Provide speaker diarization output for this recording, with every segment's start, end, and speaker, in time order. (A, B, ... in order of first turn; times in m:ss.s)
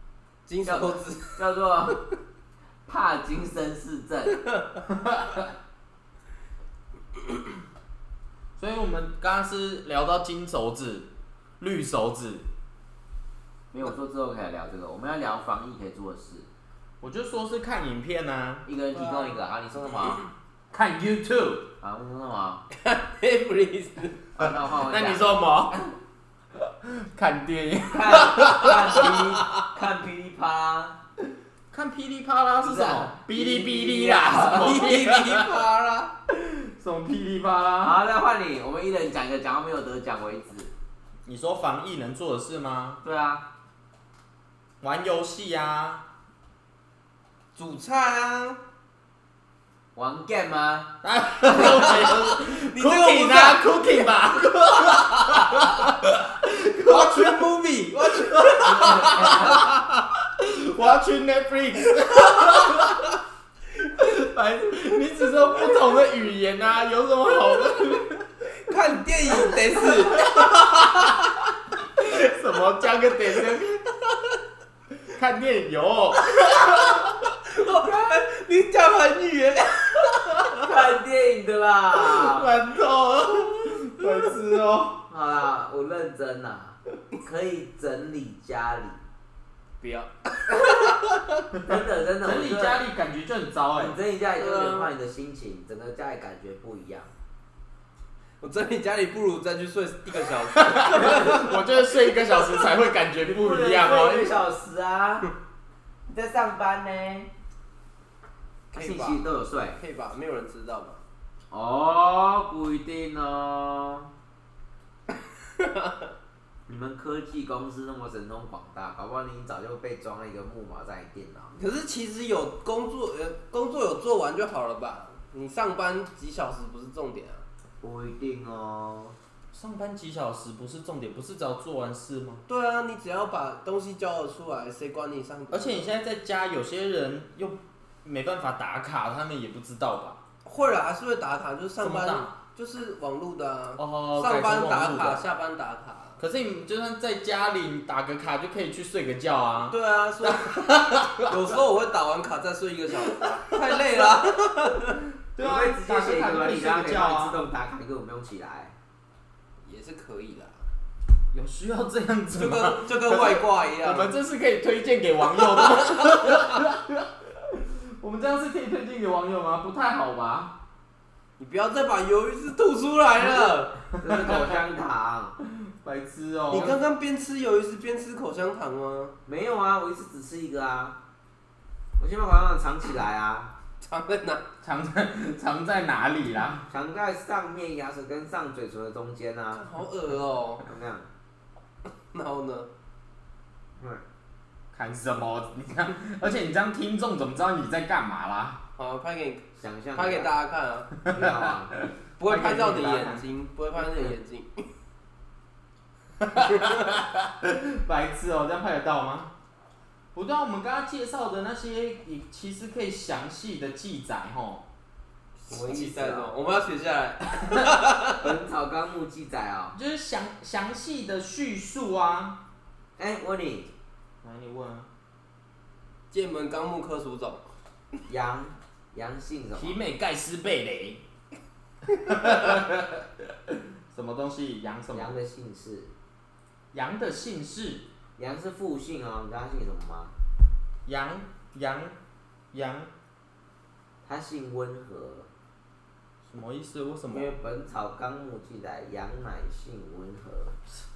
0:00.5-0:01.4 A
0:00.6-0:02.0 B
0:02.9-0:04.4 B
0:04.9-0:05.5 C
0:08.6-0:12.5 C
0:13.7-0:16.5 B
0:17.0-0:18.7 C
0:18.7-0:20.2 B
0:19.0-0:19.4 A
0:20.7-0:21.7 C
0:21.8-0:22.6 B
0:22.7-0:24.2 A
0:24.4-0:25.4 B
0:24.4-0:25.9 C
0:26.8-0:29.0 C
0:27.9-0:31.0 B
0:31.7-0:35.5 C
0:32.6-0:35.0 B
0:34.4-0:36.1 A
0:36.3-0:38.0 C
0:37.8-0:40.7 B
0:41.3-0:43.0 C
0:43.0-0:43.5 B
0:44.8-0:46.0 C
0:47.6-0:48.6 A
0:50.0-0:51.0 B
0:51.0-1:03.1 C
0:51.6-0:52.0 B
0:51.6-0:53.8 A
0:56.8-0:59.4 A
0:58.6-0:59.7 B
1:03.8-1:08.3 C
1:08.5-1:10.4 A
1:09.5-1:13.8 C
1:15.1-1:17.1 C
1:16.3-1:20.5 A
1:20.6-1:22.5 B
1:22.0-1:25.0 C
1:25.1-1:29.0 B
1:29.8-1:31.2 A
1:30.5-1:30.9 B
1:31.6-1:32.8 B
1:32.2-1:34.0 C
1:33.8-1:37.1 B
1:34.4-1:34.9 A
1:38.4-1:41.6 A
1:40.5-1:44.4 C
1:43.3-1:45.3 B
1:46.1-1:47.3 B
1:48.7-1:51.0 A
1:48.8-1:49.8 B
1:51.5-1:54.1 B
1:55.6-1:56.1 A
1:56.7-2:01.6 B
2:01.6-2:07.4 A
2:07.8-2:09.2 B
2:09.5-2:12.4 C
2:12.5-2:15.9 A
2:15.5-2:20.2 C
2:20.4-2:26.2 A
2:21.8-2:22.3 C
2:23.8-2:25.2 C
2:26.2-2:31.5 C
2:29.7-2:30.6 A
2:31.2-2:35.0 A
2:33.1-2:34.0 C
2:35.3-2:37.4 C
2:35.4-2:38.8 B
2:39.6-2:40.6 A
2:41.3-2:50.5 C
2:42.4-2:44.1 A
2:51.4-2:53.8 A
2:53.9-2:54.6 C
2:54.0-2:55.4 B
2:55.4-2:56.8 C
2:56.5-2:59.2 A
2:59.3-3:01.0 B
3:02.0-3:03.5 B
3:03.8-3:04.4 A
3:04.6-3:06.7 C
3:06.7-3:09.6 B
3:09.5-3:10.7 A
3:10.6-3:11.1 B
3:12.1-3:12.7 A
3:13.8-3:14.0 B
3:14.7-3:18.6 C
3:18.8-3:20.9 A
3:19.6-3:20.3 B
3:21.0-3:23.2 C
3:21.1-3:21.7 B
3:22.2-3:24.7 A
3:23.8-3:24.1 B
3:26.2-3:29.3 C
3:30.2-3:34.7 C
3:35.5-3:36.3 B
3:35.5-3:38.3 A
3:38.2-3:39.8 B
3:39.7-3:42.4 C
3:43.0-3:43.7 B
3:44.2-3:44.9 C
3:46.1-3:47.4 A
3:48.1-3:49.8 B
3:49.6-3:51.0 C
3:51.9-3:55.2 C
3:54.9-3:55.9 B
3:56.7-3:57.9 C
3:58.2-4:00.1 B
4:00.9-4:02.0 C
4:02.5-4:02.9 C
4:04.0-4:05.3 B
4:06.2-4:07.3 C
4:07.1-4:10.6 B